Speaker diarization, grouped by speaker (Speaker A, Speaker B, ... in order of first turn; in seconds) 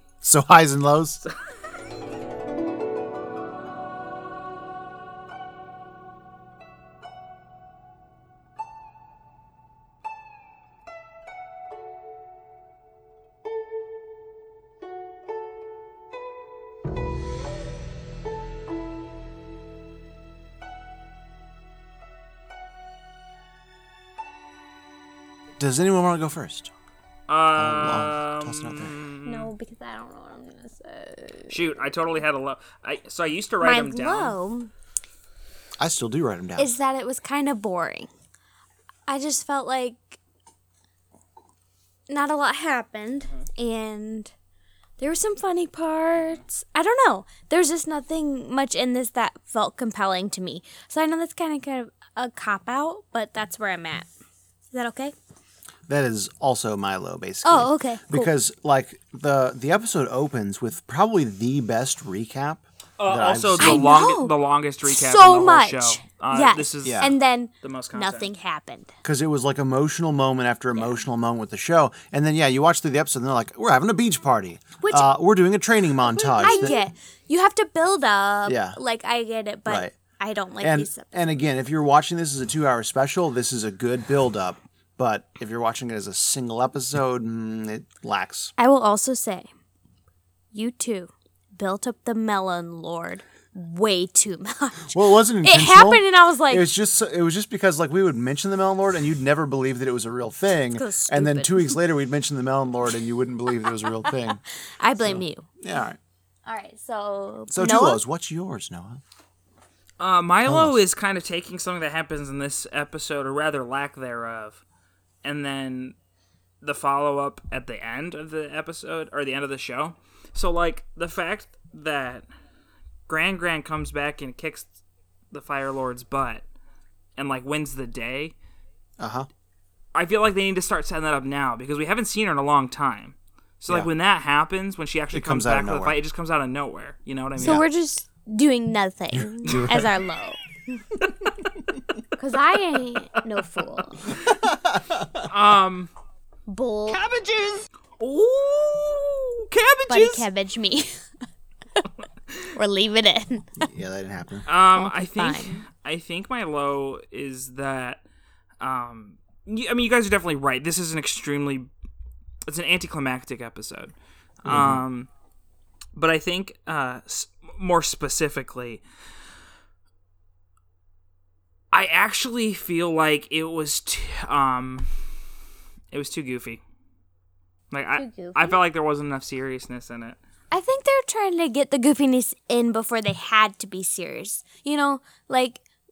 Speaker A: 0.2-1.2, 25.6-26.7, 27.5-28.9, 35.8-36.7, 55.9-63.9, 66.8-67.1, 69.0-76.8, 78.5-78.8, 79.7-79.9, 80.6-88.5, 94.9-104.4, 105.0-106.0, 107.5-109.0, 110.4-110.8, 129.0-129.3, 135.1-136.0, 137.4-137.6, 139.1-139.9, 144.3-145.2, 153.6-154.5, 164.4-164.8
Speaker B: 27.3-29.5, 31.5-34.4, 63.0-68.3, 110.0-114.6, 115.2-116.0, 116.6-122.2, 123.1-124.7, 125.3-126.4, 127.2-128.3, 129.9-137.7, 145.2-145.9, 147.0-150.2, 154.4-158.0, 158.6-161.7, 162.4-165.1, 165.9-168.8, 171.7-174.9, 175.9-176.6, 177.7-180.2
Speaker C: 29.2-31.9, 33.6-34.7, 36.6-38.1, 39.1-40.2, 42.1-44.3, 45.0-54.1, 54.7-55.1, 57.4-58.3, 63.6-64.3, 64.8-68.9, 74.8-75.1, 76.3-81.1, 88.6-89.5, 90.5-96.7, 100.7-101.8, 103.7-104.1, 104.8-105.5, 106.5-108.0, 137.4-140.8, 142.2-144.2, 146.5-147.0, 149.9-151.0, 152.5-153.7, 154.7-155.6, 177.9-178.6, 180.5-185.6